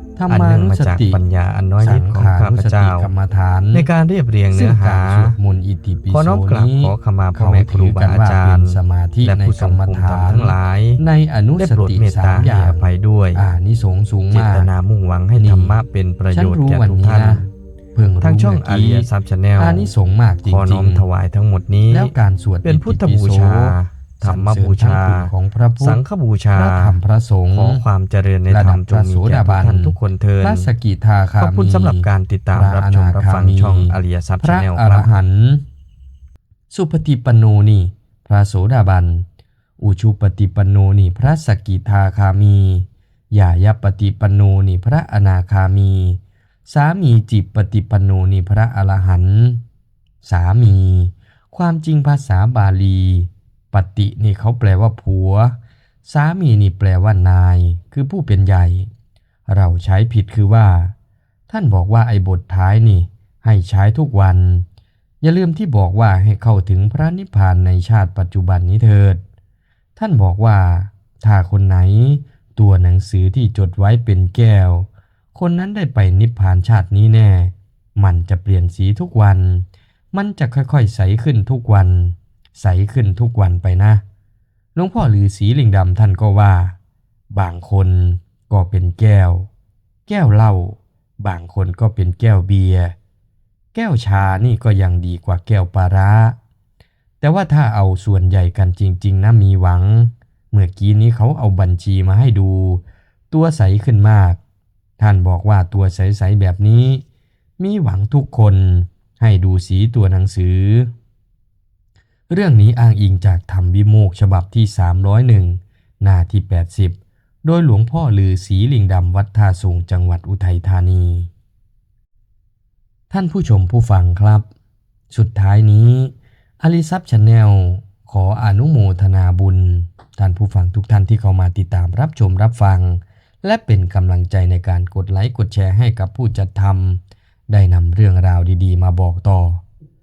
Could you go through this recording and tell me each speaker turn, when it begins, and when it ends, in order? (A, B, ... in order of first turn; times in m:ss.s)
0:00.2-0:01.2 A
0:00.3-0:03.1 B
0:01.8-0:03.9 A
0:03.7-0:05.4 B
0:04.5-0:14.7 A
0:06.1-0:11.0 B
0:11.6-0:13.4 B
0:14.3-0:17.5 B
0:15.4-0:21.1 A
0:18.2-0:19.9 B
0:20.4-0:27.0 B
0:21.9-0:26.0 A
0:26.6-0:27.8 A
0:27.5-0:30.7 B
0:28.5-0:35.6 A
0:31.4-0:35.1 B
0:36.7-0:39.3 A
0:39.8-0:49.6 A
0:50.2-0:58.9 A
0:59.5-1:01.0 A
1:01.5-1:04.7 A
1:05.2-1:09.2 A
1:10.0-1:24.0 A
1:24.8-1:26.8 A
1:27.3-1:29.5 A
1:30.1-1:33.0 A
1:33.8-1:36.4 A
1:37.2-1:44.4 A
1:45.0-1:47.0 A
1:47.6-1:50.9 A
1:52.3-2:01.3 A
2:03.1-2:04.5 A
2:05.1-2:19.6 A